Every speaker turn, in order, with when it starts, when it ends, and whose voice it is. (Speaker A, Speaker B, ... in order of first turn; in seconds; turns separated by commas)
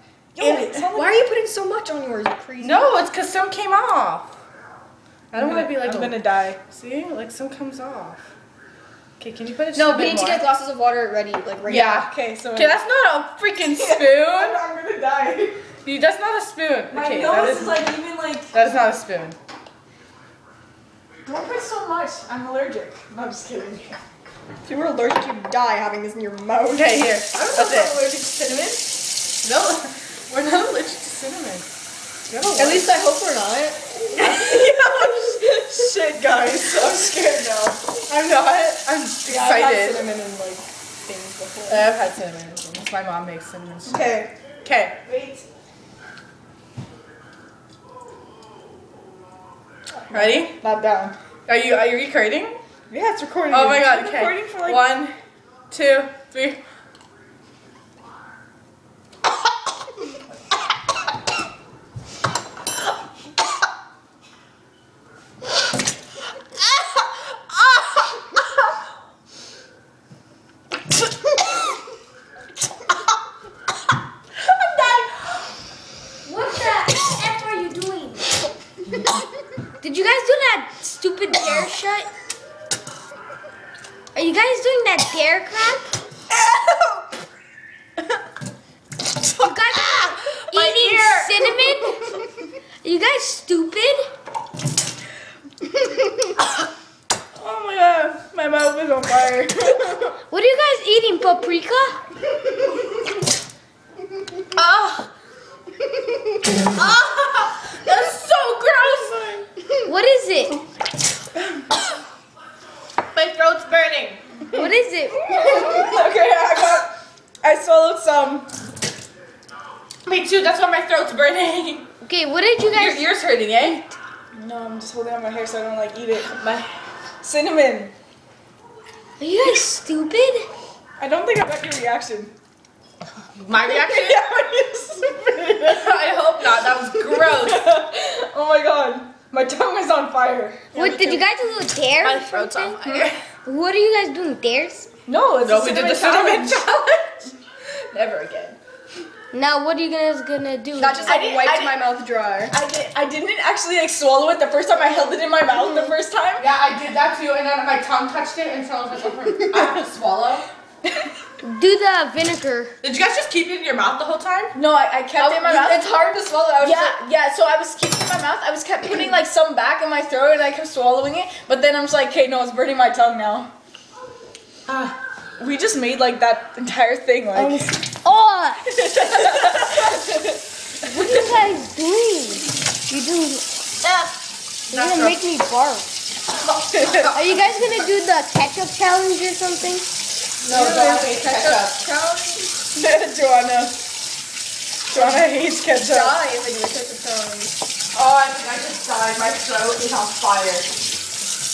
Speaker A: 0.4-1.1, Speaker B: 0.4-2.9, Speaker C: 2.6-4.3, Speaker C: 5.3-8.2, Speaker A: 5.3-6.6, Speaker C: 9.2-10.4, Speaker B: 9.7-12.0, Speaker C: 11.7-14.5, Speaker A: 12.0-12.8, Speaker A: 13.7-15.6, Speaker C: 15.8-17.8, Speaker A: 16.9-18.5, Speaker C: 18.5-19.4, Speaker A: 21.2-24.0, Speaker B: 24.6-27.0, Speaker C: 26.7-28.0, Speaker A: 27.2-28.9, Speaker C: 29.4-31.7, Speaker C: 32.3-32.9, Speaker B: 32.6-33.8, Speaker A: 34.1-38.0, Speaker C: 34.2-34.7, Speaker C: 38.1-40.0, Speaker A: 39.2-41.9, Speaker C: 41.7-44.1, Speaker A: 43.9-44.3, Speaker C: 44.6-45.0, Speaker A: 45.0-45.5, Speaker A: 50.0-51.1, Speaker C: 50.1-50.5, Speaker C: 51.5-52.6, Speaker A: 52.9-55.0, Speaker C: 53.5-55.1, Speaker C: 55.7-56.6, Speaker D: 76.2-78.2, Speaker D: 79.8-82.1, Speaker D: 84.1-85.9, Speaker A: 86.5-86.9, Speaker D: 89.4-92.1, Speaker A: 90.6-91.3, Speaker D: 92.8-94.0, Speaker A: 97.3-100.1, Speaker D: 100.3-102.0, Speaker C: 104.6-105.1, Speaker C: 106.8-109.1, Speaker A: 108.9-109.4, Speaker D: 109.8-110.6, Speaker C: 113.1-114.2, Speaker D: 114.5-115.2, Speaker A: 115.3-118.5, Speaker C: 120.1-121.9, Speaker D: 122.0-123.1, Speaker C: 122.7-123.8, Speaker A: 124.3-126.7, Speaker A: 127.2-127.9, Speaker D: 129.2-130.5, Speaker A: 131.0-132.3, Speaker C: 133.3-134.2, Speaker A: 133.9-135.8, Speaker C: 135.6-137.7, Speaker A: 137.3-140.8, Speaker D: 140.7-142.8, Speaker B: 140.8-141.2, Speaker C: 142.0-143.2, Speaker D: 143.4-144.9, Speaker A: 145.1-147.2, Speaker C: 145.4-146.8, Speaker A: 147.9-148.6, Speaker D: 149.3-151.1, Speaker A: 150.8-151.9, Speaker B: 151.0-152.5, Speaker A: 152.5-156.4, Speaker D: 155.5-155.9, Speaker C: 156.4-160.4, Speaker D: 161.4-162.7, Speaker C: 162.8-164.5, Speaker A: 164.5-166.1, Speaker B: 165.2-166.9, Speaker A: 166.6-173.5, Speaker A: 175.4-177.7, Speaker D: 177.3-178.7, Speaker A: 178.7-180.4, Speaker D: 180.8-183.5, Speaker D: 184.7-185.9, Speaker C: 184.7-185.1, Speaker A: 186.7-187.1, Speaker D: 187.1-189.9, Speaker A: 190.4-191.7, Speaker C: 190.4-191.7, Speaker B: 191.4-192.5, Speaker A: 192.7-193.8, Speaker A: 194.9-196.2, Speaker B: 195.8-197.6, Speaker A: 197.9-200.7